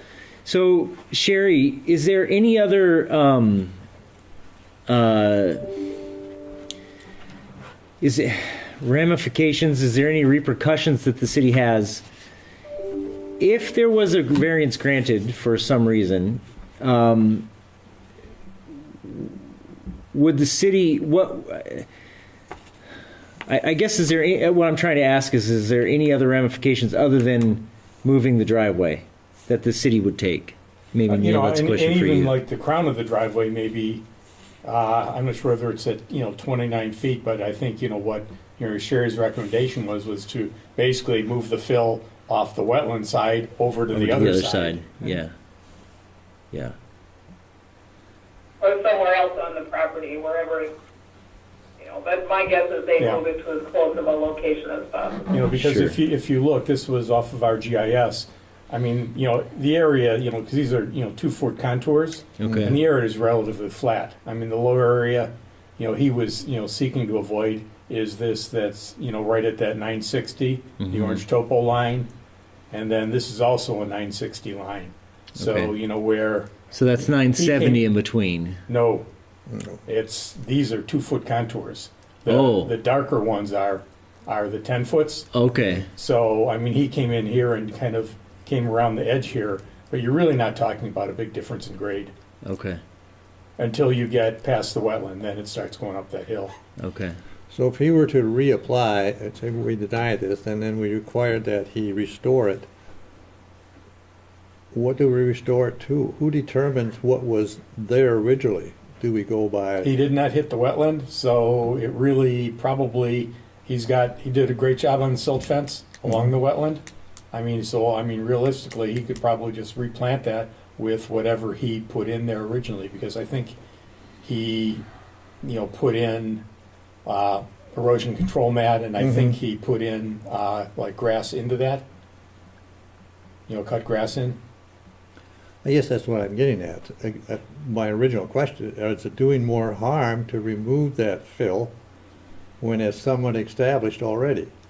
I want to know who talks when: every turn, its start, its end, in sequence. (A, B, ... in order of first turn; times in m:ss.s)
0:00.4-0:03.7 A
0:04.9-0:05.6 A
0:08.0-0:12.0 A
0:13.4-0:17.5 A
0:19.0-0:19.3 A
0:20.1-0:21.9 A
0:23.5-0:32.4 A
0:31.1-0:34.0 B
0:34.6-0:44.8 B
0:43.9-0:45.3 A
0:48.6-0:50.7 C
0:51.8-0:55.3 C
0:55.3-1:12.1 B
0:55.5-0:56.0 A
1:02.4-1:02.8 A
1:10.8-1:11.2 A
1:12.7-1:16.5 B
1:15.4-1:15.7 A
1:16.7-1:18.6 A
1:17.3-1:17.8 B
1:18.7-1:19.1 B
1:19.5-1:19.8 D
1:19.8-1:25.3 B
1:22.3-1:22.7 A
1:25.3-1:25.9 A
1:25.9-1:32.1 B
1:32.4-1:32.8 A
1:33.6-1:36.6 B
1:36.8-1:37.2 A
1:37.5-1:42.7 D
1:44.7-1:49.9 D
1:49.8-2:03.6 B
2:04.2-2:04.8 B
2:05.4-2:06.4 B
2:07.0-2:11.8 B
2:09.0-2:09.4 D
2:13.5-2:14.4 B
2:15.6-2:21.7 D
2:22.6-2:24.5 D